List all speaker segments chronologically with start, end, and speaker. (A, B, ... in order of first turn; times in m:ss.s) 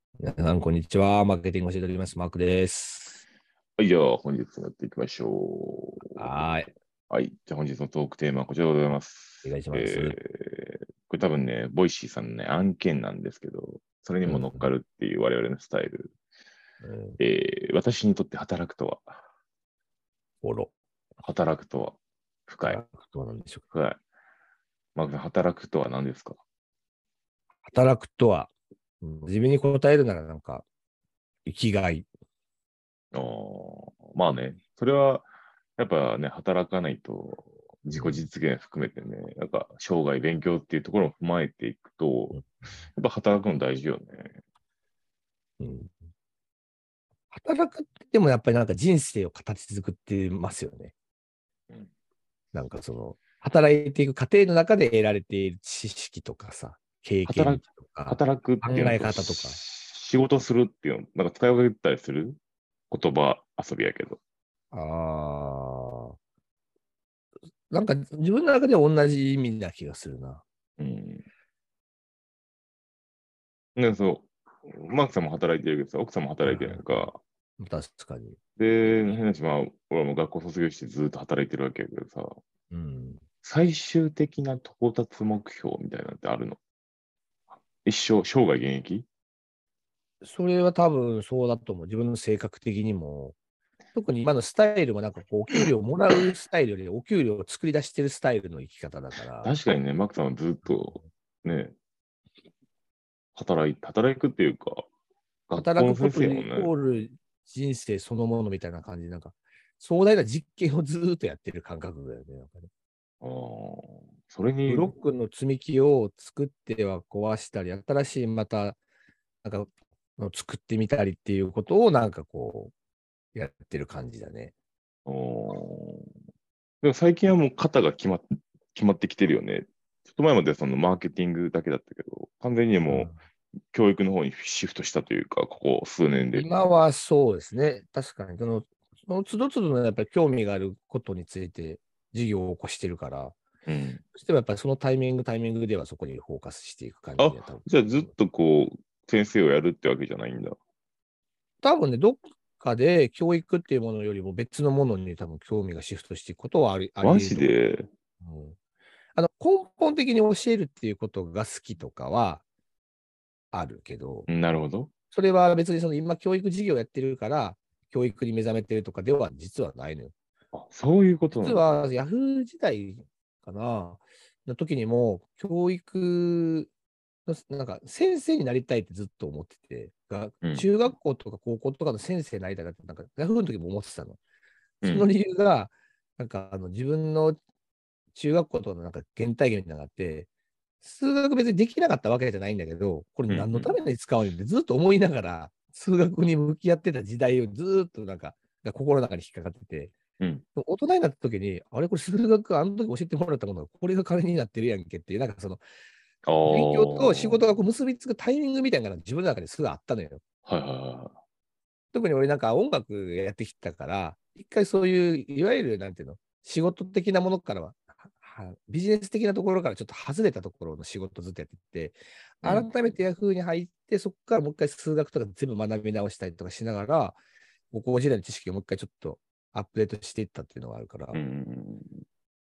0:00.2-0:03.2 A
0:03.8-0:06.5 B
0:06.2-0:06.7 A
0:07.1-0:16.1 B
0:09.4-0:10.2 A
0:14.3-0:14.7 A
0:16.8-0:17.2 A
0:17.2-0:19.2 B
0:20.4-0:20.7 A
0:21.2-0:22.8 B
0:22.6-0:23.6 A
0:23.7-0:24.0 B
0:25.0-0:26.4 B
0:27.7-0:28.5 A
0:29.0-0:30.7 A
0:31.5-0:32.1 A
0:33.1-0:44.4 B
0:38.0-0:38.2 A
0:42.3-0:42.8 A
0:45.6-0:46.0 A
0:47.3-0:50.9 A
0:52.5-0:59.6 A
0:57.3-1:02.4 B
1:02.9-1:04.2 B
1:04.7-1:06.2 A
1:07.7-1:10.4 A
1:10.8-1:11.2 B
1:13.8-1:17.2 B
1:16.4-1:18.4 A
1:18.6-1:22.4 B
1:22.7-1:23.2 A
1:23.4-1:26.6 B
1:27.8-1:29.1 B
1:30.2-1:33.4 A
1:34.0-1:39.5 A
1:39.4-1:41.7 B
1:40.6-1:41.1 A
1:43.4-1:44.9 B
1:45.5-1:46.7 B
1:45.6-1:52.7 A
1:53.2-1:54.9 B
1:54.7-1:58.8 A
1:59.4-2:02.7 A
2:03.4-2:04.5 A
2:05.1-2:06.1 B
2:06.8-2:13.1 B
2:12.9-2:13.2 A
2:13.7-2:16.5 B
2:16.3-2:23.4 A
2:23.7-2:24.0 B
2:24.2-2:28.1 A
2:27.2-2:30.6 B
2:31.6-2:37.5 A
2:37.0-2:37.9 B
2:38.2-2:38.6 A
2:39.2-2:42.4 A
2:43.5-2:44.3 A
2:44.3-2:44.9 B
2:45.1-2:50.1 A
2:50.5-2:51.6 B
2:51.4-2:56.7 A
2:57.3-3:04.2 A
3:00.4-3:00.7 B
3:04.8-3:05.1 B
3:04.8-3:07.4 A
3:08.1-3:10.3 A
3:10.8-3:20.0 A
3:13.3-3:13.8 B
3:20.6-3:25.6 A
3:26.3-3:27.4 B
3:26.5-3:30.2 A
3:30.5-3:31.2 B
3:31.9-3:47.2 A
3:42.4-3:42.7 B
3:47.7-3:51.2 A
3:51.1-3:52.0 B